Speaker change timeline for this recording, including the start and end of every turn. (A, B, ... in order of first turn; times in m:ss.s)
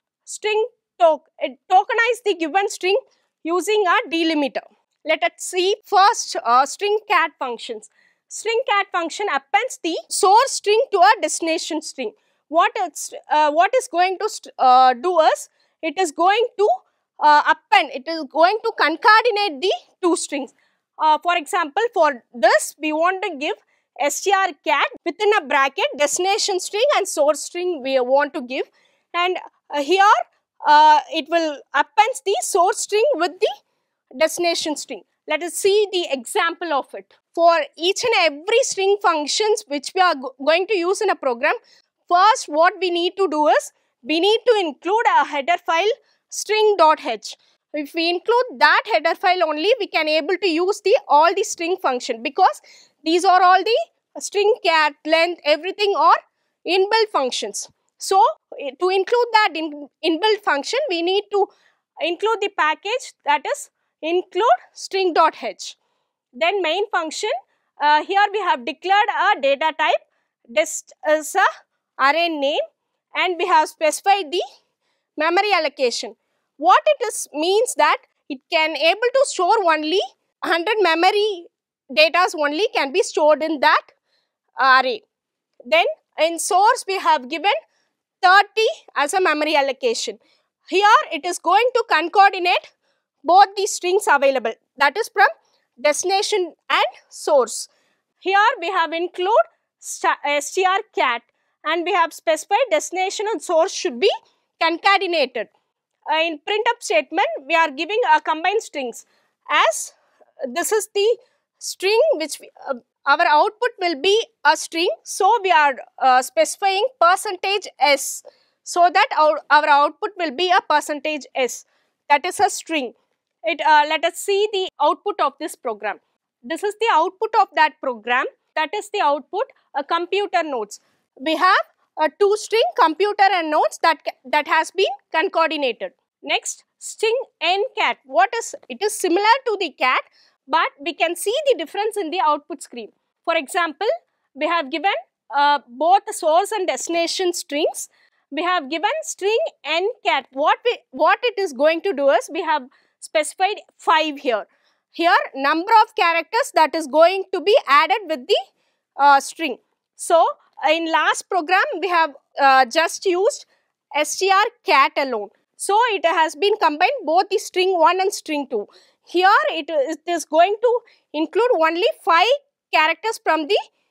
0:00.2-0:33.5 A
0:34.2-1:01.5 A
1:02.0-1:05.8 A
1:06.4-1:11.5 A
1:12.0-1:12.6 A
1:13.2-1:14.4 A
1:15.2-1:23.9 A
1:24.6-1:25.0 A
1:25.7-1:27.6 A
1:28.2-1:32.6 A
1:33.2-1:35.3 A
1:35.8-1:37.7 A
1:38.2-1:45.5 A
1:46.1-2:38.4 A
2:39.0-2:53.6 A